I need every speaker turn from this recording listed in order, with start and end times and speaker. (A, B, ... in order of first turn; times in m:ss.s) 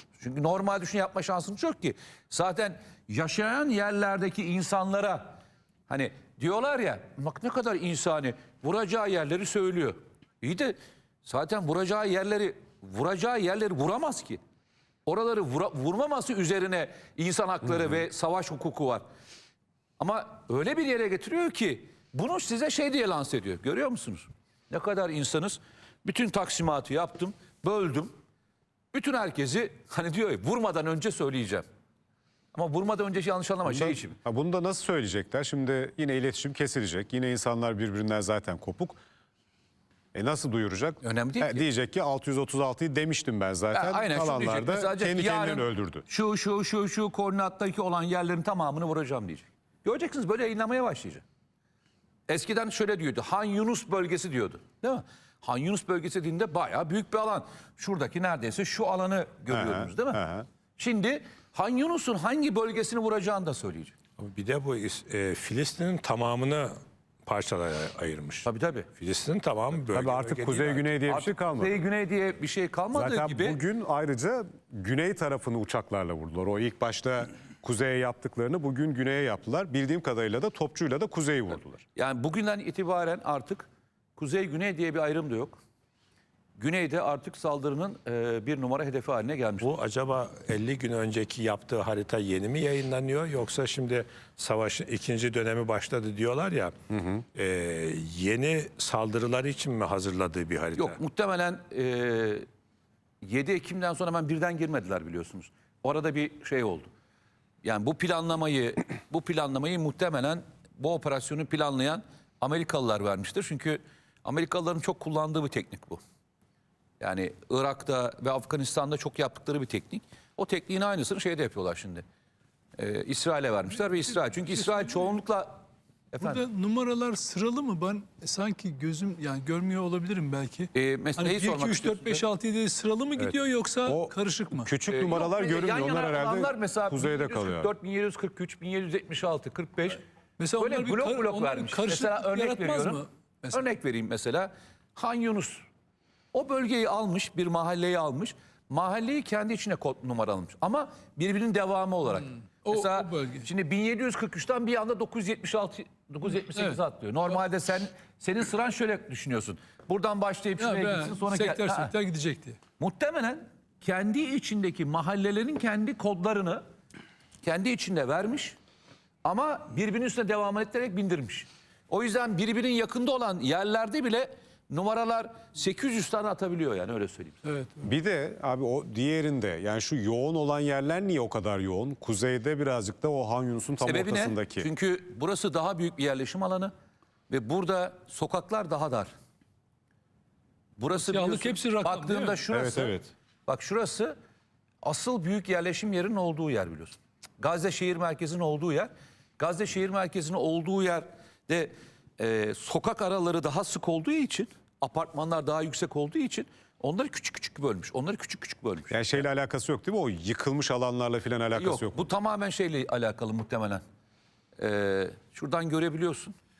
0:00.1-0:05.4 A
0:05.9-0:14.4 A
0:15.0-0:19.0 A
0:20.0-0:28.1 A
0:28.9-0:31.6 A
0:32.5-0:34.2 A
0:33.6-0:39.0 B
0:40.1-0:46.0 B
0:41.0-0:41.6 A
0:43.7-0:51.2 A
0:52.3-1:00.2 A
0:59.5-1:00.4 B
1:00.8-1:03.9 A
1:04.2-1:06.7 C
1:07.2-1:11.0 C
1:08.4-1:08.9 A
1:09.9-1:11.8 B
1:11.0-1:13.6 A
1:12.9-1:21.8 B
1:22.0-1:25.6 A
1:26.6-1:29.7 A
1:29.6-1:36.7 C
1:36.9-1:37.2 B
1:37.3-1:41.0 C
1:40.8-1:42.4 A
1:43.2-1:46.9 A
1:47.6-1:56.0 A
1:57.0-2:02.0 A
2:02.8-2:06.4 A
2:06.2-2:14.7 D
2:10.7-2:12.2 A
2:13.2-2:17.7 B
2:14.9-2:20.0 A
2:20.4-2:23.6 D
2:20.6-2:25.6 A
2:26.3-2:41.9 A
2:32.6-2:33.4 D
2:40.6-2:42.6 D
2:42.8-2:46.6 A
2:47.4-2:48.6 A
2:49.2-2:57.5 A
2:57.8-3:04.7 B
3:03.8-3:06.7 A
3:07.3-3:09.1 A
3:10.8-3:14.1 A
3:10.9-3:12.4 D
3:12.5-3:13.1 B
3:14.8-3:29.2 A
3:28.9-3:32.1 B
3:31.5-3:33.8 A
3:34.6-3:36.3 A